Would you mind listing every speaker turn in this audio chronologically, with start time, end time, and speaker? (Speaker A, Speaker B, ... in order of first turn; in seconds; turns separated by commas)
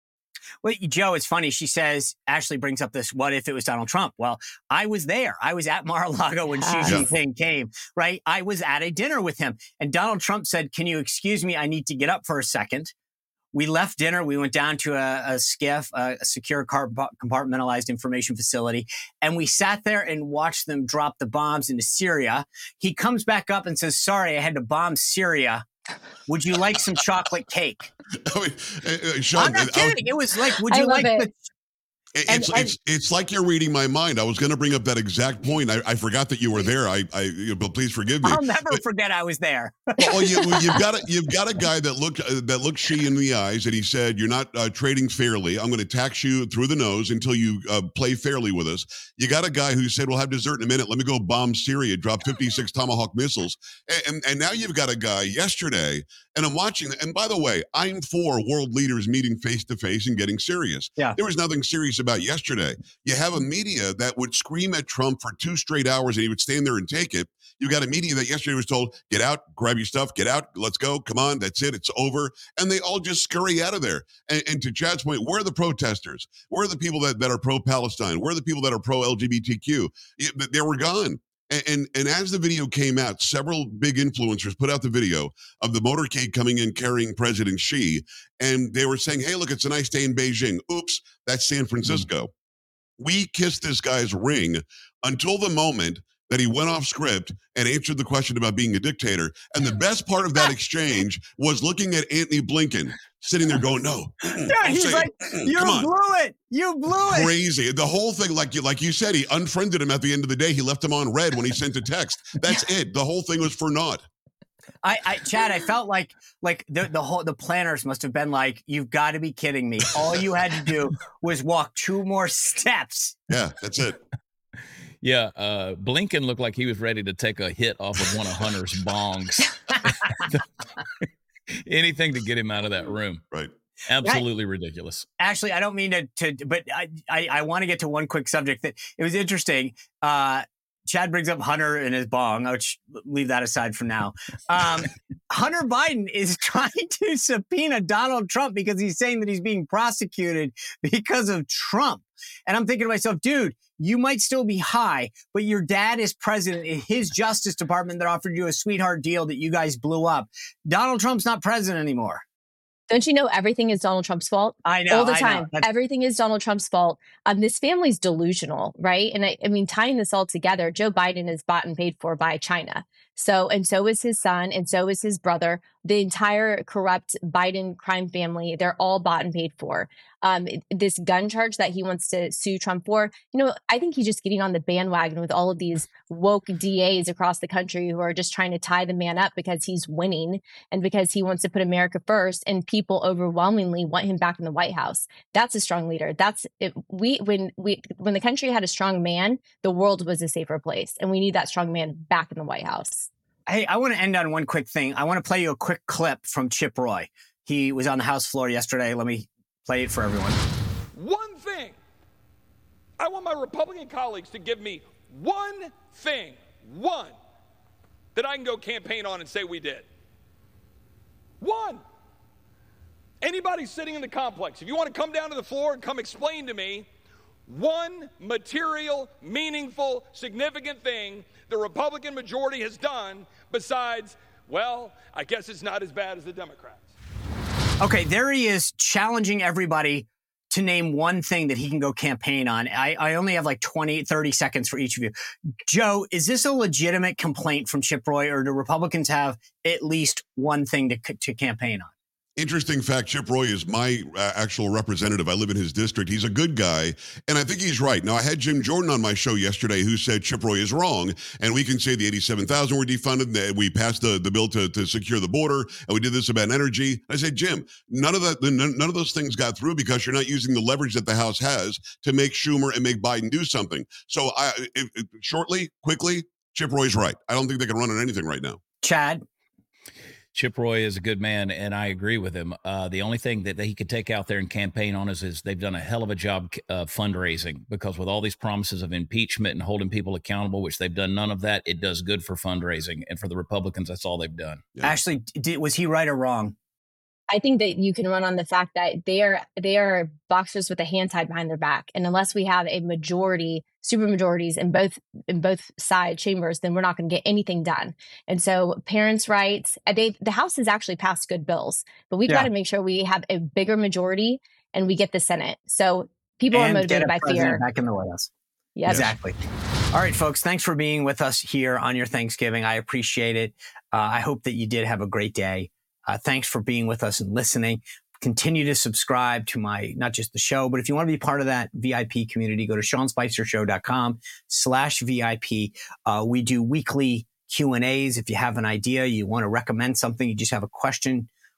Speaker A: 0.6-12.9, Speaker B: 6.6-7.1, Speaker A: 13.5-25.6, Speaker A: 26.3-27.9, Speaker C: 28.3-30.0, Speaker A: 29.4-31.3, Speaker B: 30.7-31.3, Speaker C: 32.2-38.4, Speaker A: 32.3-32.7, Speaker A: 38.2-40.1, Speaker C: 40.0-92.3, Speaker B: 40.0-40.8, Speaker C: 93.0-105.9, Speaker A: 104.5-107.3, Speaker C: 107.0-114.0, Speaker A: 114.8-123.2, Speaker C: 123.3-124.0, Speaker D: 125.0-130.4, Speaker D: 131.7-133.2, Speaker D: 133.9-135.1, Speaker A: 135.2-162.2, Speaker B: 162.9-203.1, Speaker A: 164.7-165.7, Speaker A: 203.5-210.4, Speaker E: 210.9-211.8, Speaker E: 213.0-217.2, Speaker E: 218.2-219.9, Speaker E: 221.4-221.8, Speaker E: 223.2-226.9, Speaker E: 227.5-236.9, Speaker A: 237.8-245.1, Speaker A: 245.7-251.9, Speaker C: 252.4-278.6, Speaker A: 278.8-279.2, Speaker D: 280.3-294.6, Speaker A: 294.8-296.6, Speaker B: 297.3-317.6, Speaker A: 316.5-318.3, Speaker B: 318.8-319.1, Speaker A: 318.9-319.4, Speaker A: 319.9-341.3